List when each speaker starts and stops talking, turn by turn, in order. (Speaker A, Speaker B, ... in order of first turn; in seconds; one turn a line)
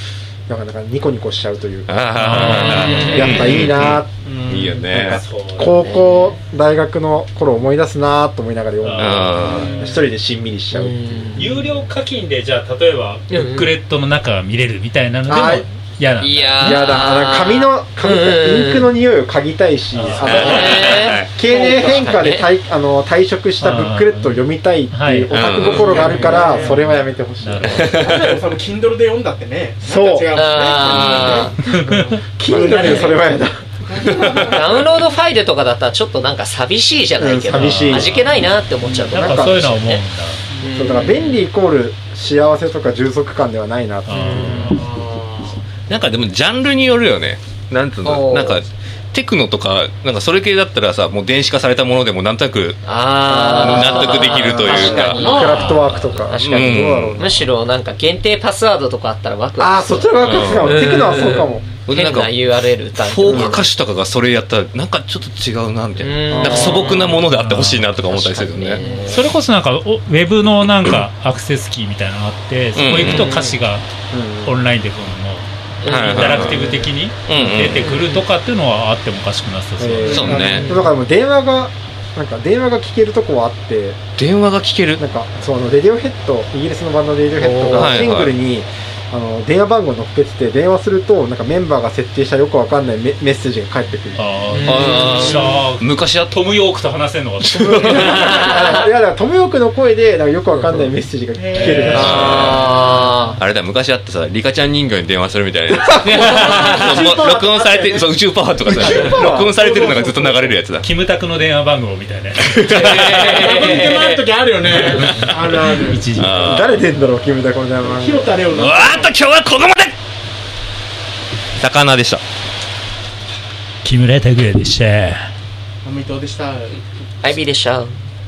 Speaker A: 0.5-11.0
Speaker B: 1.9-5.2
Speaker C: 2.2-3.5
Speaker D: 2.4-3.5
Speaker E: 2.8-3.1
Speaker E: 4.2-4.9
Speaker C: 5.0-5.8
Speaker D: 5.8-6.4
Speaker C: 8.8-9.7
Speaker B: 9.0-9.7
Speaker E: 9.4-10.0
Speaker D: 10.7-11.7
Speaker C: 11.4-16.9
Speaker D: 13.3-13.7
Speaker A: 15.2-15.6
Speaker D: 16.2-18.9
Speaker A: 16.6-28.0
Speaker C: 19.9-21.0
Speaker B: 20.1-21.4
Speaker D: 20.2-21.2
Speaker E: 21.4-22.2
Speaker D: 21.9-22.5
Speaker C: 23.6-25.4
Speaker B: 25.3-26.0
Speaker E: 25.8-26.8
Speaker D: 26.0-26.4
Speaker C: 26.0-28.0
Speaker B: 27.6-28.4
Speaker E: 27.9-33.3
Speaker A: 29.8-30.3
Speaker D: 30.3-31.5
Speaker B: 30.9-31.4
Speaker C: 31.3-32.2
Speaker A: 32.4-33.6
Speaker D: 32.7-33.1
Speaker E: 34.0-34.8
Speaker D: 34.5-40.0
Speaker A: 37.2-38.2
Speaker C: 37.5-40.5
Speaker A: 38.9-39.6
Speaker D: 40.6-41.4
Speaker A: 40.7-44.6
Speaker C: 44.0-44.9
Speaker D: 44.1-44.8
Speaker E: 44.6-45.6
Speaker B: 45.9-52.8
Speaker D: 48.0-48.6
Speaker D: 52.8-63.7
Speaker A: 53.3-57.4
Speaker B: 53.4-55.2
Speaker E: 54.8-55.8
Speaker C: 55.3-55.8
Speaker B: 56.4-57.3
Speaker A: 59.6-61.7
Speaker B: 60.2-60.9
Speaker B: 61.9-68.8
Speaker A: 63.3-63.6
Speaker D: 66.0-67.2
Speaker A: 66.3-67.0
Speaker C: 67.0-68.0
Speaker D: 67.9-69.2
Speaker C: 69.1-73.9
Speaker B: 72.8-73.4
Speaker D: 73.0-73.6
Speaker A: 74.1-74.6
Speaker C: 74.4-80.9
Speaker D: 75.8-76.9
Speaker B: 75.8-76.7
Speaker A: 76.3-76.9
Speaker B: 77.3-77.9
Speaker D: 77.8-78.2
Speaker A: 79.8-84.0
Speaker E: 80.0-80.4
Speaker B: 80.1-80.7
Speaker D: 80.5-80.9
Speaker B: 84.2-85.0
Speaker A: 85.0-95.0
Speaker D: 87.4-88.0
Speaker B: 87.6-88.3
Speaker C: 94.1-98.5
Speaker D: 94.5-95.6
Speaker B: 94.6-96.3
Speaker B: 97.4-98.3
Speaker A: 97.5-102.5
Speaker D: 98.0-98.9
Speaker D: 100.5-100.9
Speaker E: 101.4-103.4
Speaker C: 101.5-102.9
Speaker D: 101.9-103.4
Speaker B: 101.9-102.6
Speaker B: 103.4-110.9
Speaker D: 106.0-107.0
Speaker E: 106.1-110.6
Speaker A: 108.6-109.5
Speaker C: 110.8-113.0
Speaker B: 112.5-113.5
Speaker D: 112.7-114.2
Speaker E: 112.9-116.1
Speaker C: 114.6-116.9
Speaker B: 114.7-116.7
Speaker A: 116.3-118.4
Speaker E: 117.9-119.1
Speaker B: 118.5-119.9
Speaker B: 121.6-122.2
Speaker C: 123.8-125.3
Speaker E: 125.8-126.8
Speaker D: 127.2-128.0